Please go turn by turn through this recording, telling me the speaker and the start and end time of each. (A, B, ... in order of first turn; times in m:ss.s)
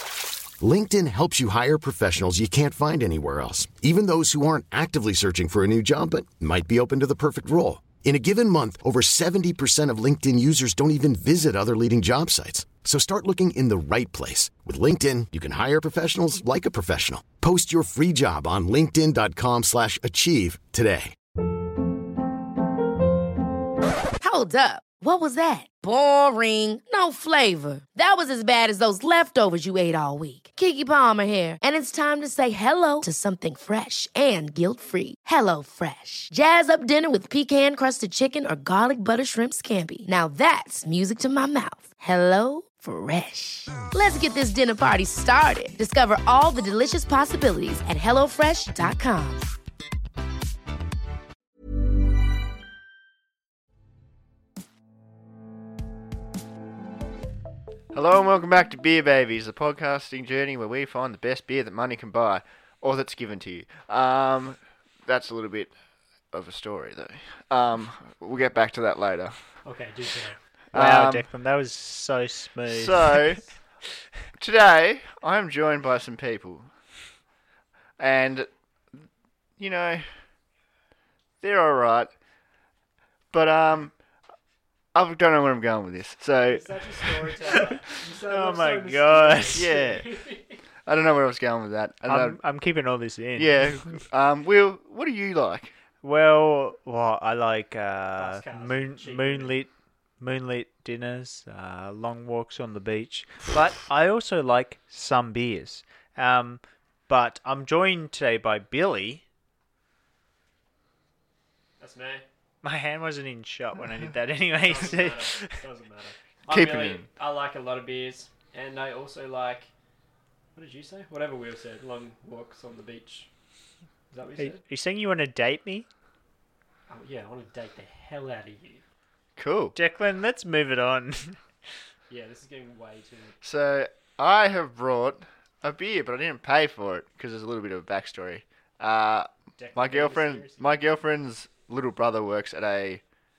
0:00.6-0:21.2 A
0:24.2-0:49.4 B
0:57.9-1:05.7 C
1:06.3-1:09.4 C
1:09.6-1:10.4 D
1:10.7-1:11.3 C
1:10.7-1:13.4 E
1:12.7-1:13.4 C
1:14.4-1:16.7 C
1:18.0-1:18.5 C
1:19.6-1:20.0 C
1:21.4-1:22.1 C
1:23.3-1:23.9 C
1:25.0-1:26.6 C
1:26.5-1:30.6 D
1:28.3-1:29.8 E
1:29.5-1:30.0 C
1:30.9-1:32.4 C
1:32.1-1:33.6 E
1:33.4-1:35.7 C
1:36.0-1:49.2 E
1:38.2-1:39.6 D
1:51.8-1:52.2 D
1:52.6-1:55.6 E
1:54.6-1:59.7 D
1:56.5-1:57.1 C
2:00.6-2:03.3 D
2:04.1-2:04.6 D
2:04.4-2:05.9 E
2:06.9-2:08.8 D
2:09.4-2:09.8 C
2:09.8-2:11.4 E
2:12.1-2:13.4 D
2:13.4-2:23.0 C
2:19.6-2:20.8 D